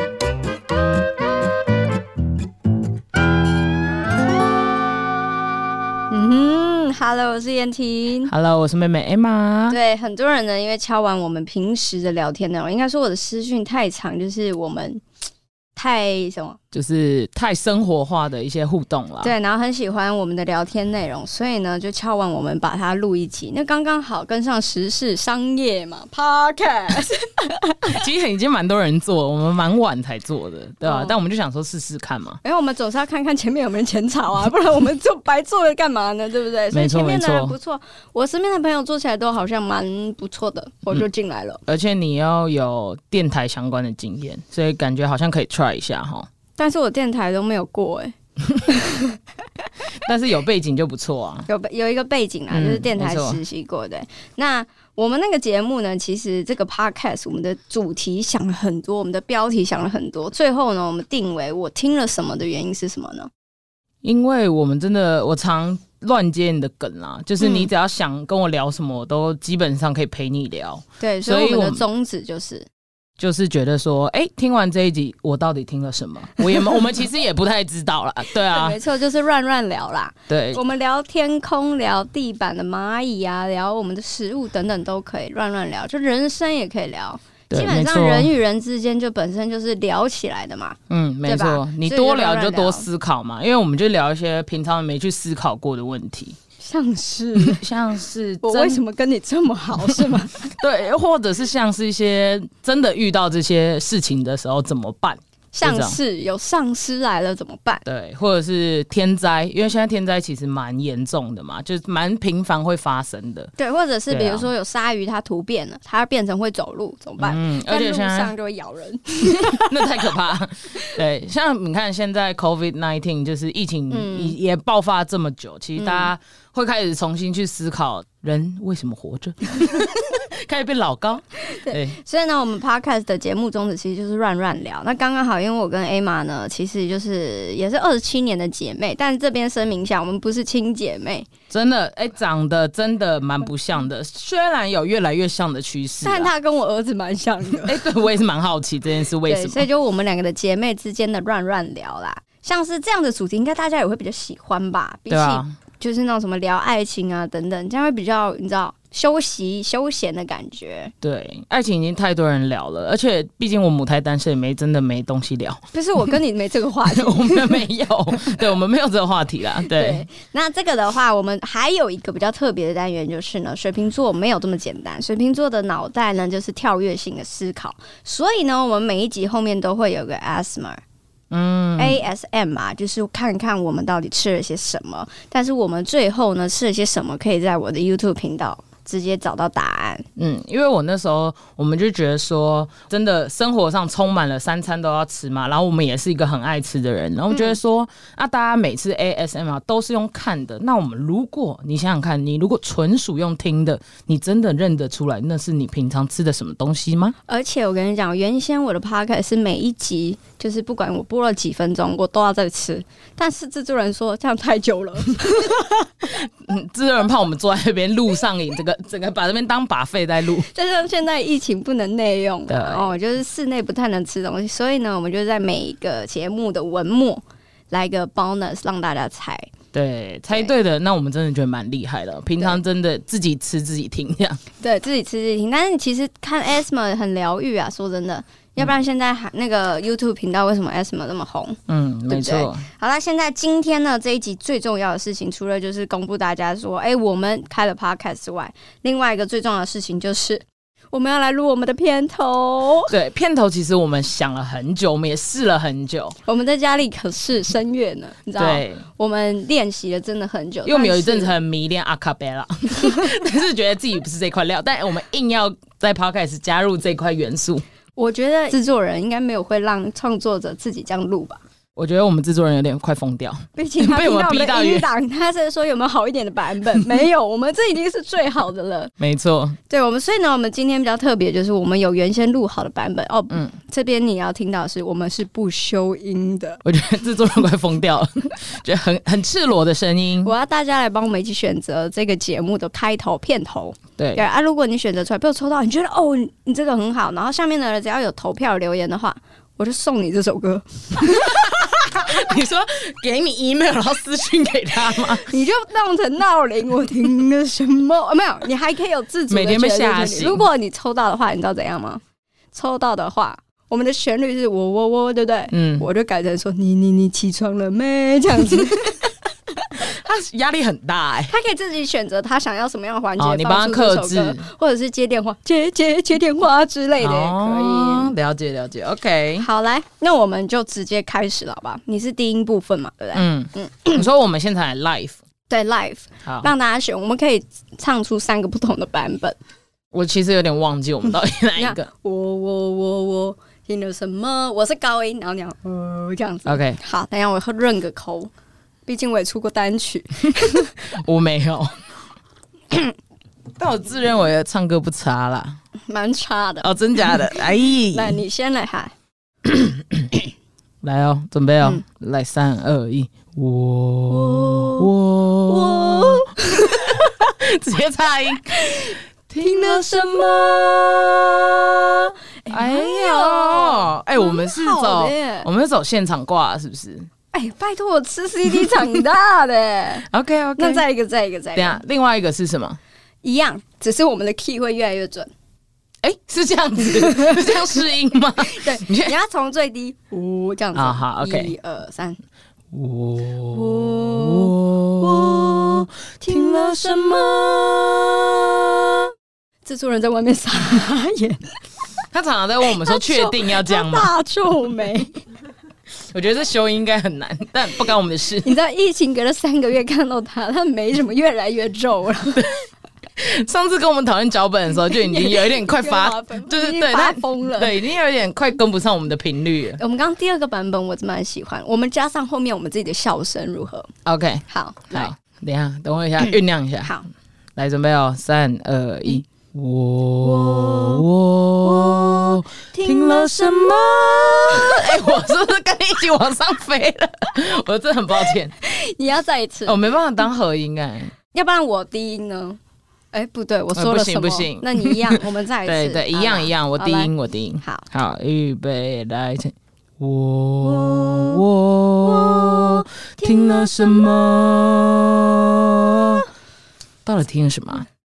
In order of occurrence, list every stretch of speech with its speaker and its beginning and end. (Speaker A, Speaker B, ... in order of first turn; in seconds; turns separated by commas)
Speaker A: 6.1-8.3, Speaker B: 8.2-9.8, Speaker A: 9.7-15.0, Speaker A: 15.8-16.6, Speaker B: 16.7-19.4, Speaker A: 19.2-28.0, Speaker B: 27.9-32.4, Speaker A: 30.8-31.2, Speaker A: 32.4-41.6, Speaker B: 36.7-37.5, Speaker B: 41.7-46.3, Speaker A: 46.6-49.2, Speaker B: 50.0-51.5, Speaker A: 51.5-63.3, Speaker B: 52.5-53.4, Speaker B: 64.0-71.8, Speaker A: 67.4-67.7, Speaker A: 71.0-72.7, Speaker B: 73.2-78.8, Speaker A: 78.4-92.9, Speaker B: 80.3-80.6, Speaker B: 87.5-88.3, Speaker B: 90.9-96.4, Speaker A: 96.6-97.6, Speaker B: 97.4-98.8, Speaker A: 98.4-100.5, Speaker B: 99.8-106.0, Speaker A: 105.5-107.8, Speaker B: 107.9-113.5, Speaker A: 113.6-120.0, Speaker B: 114.1-114.5, Speaker B: 117.2-118.3, Speaker B: 119.3-132.0, Speaker A: 123.9-124.4, Speaker A: 125.8-126.1, Speaker A: 131.6-141.3, Speaker B: 141.5-146.3, Speaker A: 146.0-147.8, Speaker B: 147.6-149.7, Speaker A: 149.2-160.9, Speaker B: 155.1-155.6, Speaker B: 161.0-166.1, Speaker A: 165.7-167.7, Speaker B: 166.8-170.0, Speaker A: 169.6-180.8, Speaker B: 181.3-182.0, Speaker A: 181.8-190.1, Speaker B: 190.2-207.2, Speaker A: 197.3-197.6, Speaker A: 207.3-215.7, Speaker B: 215.5-220.5, Speaker A: 220.4-229.5, Speaker B: 222.5-223.0, Speaker B: 229.7-234.4, Speaker A: 234.6-252.9, Speaker B: 241.7-242.7, Speaker B: 252.9-256.2, Speaker A: 256.2-261.3, Speaker B: 258.4-258.9, Speaker B: 260.6-267.6, Speaker A: 268.0-271.4, Speaker B: 271.8-274.9, Speaker A: 273.6-278.9, Speaker B: 279.0-279.6, Speaker A: 279.7-286.6, Speaker B: 283.3-283.6, Speaker B: 286.6-290.3, Speaker A: 290.2-302.4, Speaker B: 294.0-294.2, Speaker B: 301.1-305.3, Speaker A: 305.2-319.1, Speaker B: 309.3-310.5, Speaker B: 315.5-315.9, Speaker B: 319.7-321.4, Speaker A: 321.3-328.1, Speaker B: 323.2-324.4, Speaker B: 327.0-329.5, Speaker A: 329.4-334.1, Speaker B: 333.1-335.2, Speaker A: 335.5-339.4, Speaker B: 336.2-336.5, Speaker B: 339.9-341.9, Speaker A: 341.6-348.3, Speaker B: 346.5-346.8, Speaker A: 348.9-350.9, Speaker B: 350.9-351.8, Speaker B: 353.6-355.6, Speaker A: 355.9-357.4, Speaker B: 356.6-358.2, Speaker A: 357.9-358.9, Speaker B: 359.4-360.2, Speaker B: 360.8-377.1, Speaker A: 364.1-364.9, Speaker A: 365.5-367.1, Speaker A: 369.4-370.6, Speaker A: 372.4-375.5, Speaker A: 377.3-381.8, Speaker B: 378.5-379.0, Speaker B: 380.1-380.9, Speaker B: 381.6-382.8, Speaker A: 383.2-385.3, Speaker B: 386.0-389.1, Speaker A: 386.9-387.9, Speaker A: 388.4-392.2, Speaker B: 390.7-391.5, Speaker B: 392.7-398.9, Speaker A: 393.5-397.7, Speaker A: 399.6-401.6, Speaker B: 402.1-404.1, Speaker A: 402.7-405.2, Speaker B: 406.1-408.6, Speaker A: 408.4-412.5, Speaker B: 413.2-419.8, Speaker A: 414.9-417.8, Speaker A: 419.8-423.9, Speaker B: 424.1-427.0, Speaker A: 424.5-425.1, Speaker A: 426.8-427.1, Speaker B: 427.6-438.5, Speaker A: 430.2-431.1, Speaker A: 431.6-435.1, Speaker A: 438.6-439.8, Speaker B: 439.6-441.1, Speaker A: 441.3-442.6, Speaker A: 443.1-447.9, Speaker B: 443.7-456.3, Speaker A: 450.9-451.4, Speaker A: 452.3-454.1, Speaker B: 457.1-457.9